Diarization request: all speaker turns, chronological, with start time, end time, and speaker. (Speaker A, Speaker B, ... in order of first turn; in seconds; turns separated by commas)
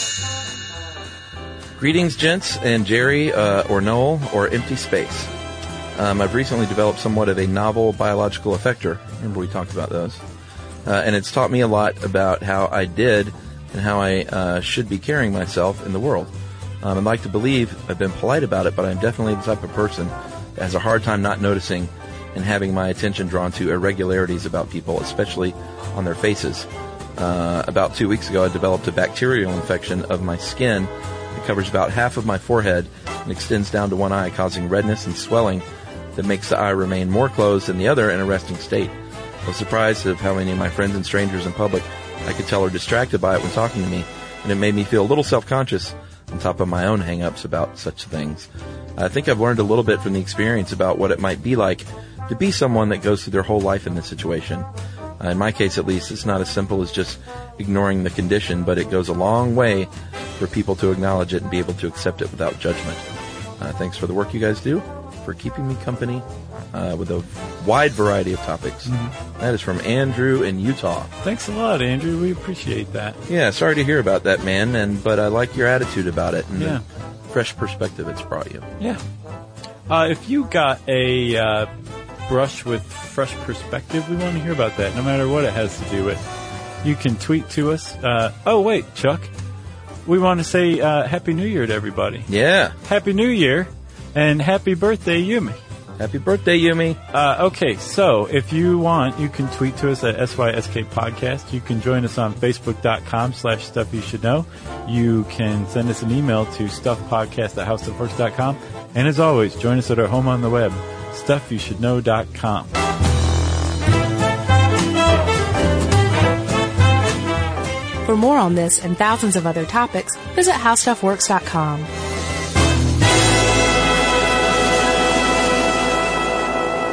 Speaker A: 1.8-5.3, Speaker A: 5.9-10.2, Speaker A: 10.8-16.3, Speaker A: 16.8-35.6, Speaker A: 36.1-38.9, Speaker A: 39.4-54.7, Speaker A: 55.2-63.0, Speaker A: 63.6-71.1, Speaker B: 68.9-69.1, Speaker B: 71.2-73.2, Speaker A: 73.3-78.7, Speaker B: 76.5-76.8, Speaker B: 79.9-81.7, Speaker B: 82.3-86.2, Speaker B: 86.8-89.3, Speaker B: 90.0-92.3, Speaker A: 92.3-92.7, Speaker B: 92.8-95.6, Speaker A: 96.0-97.0, Speaker B: 97.1-112.7, Speaker C: 118.0-121.9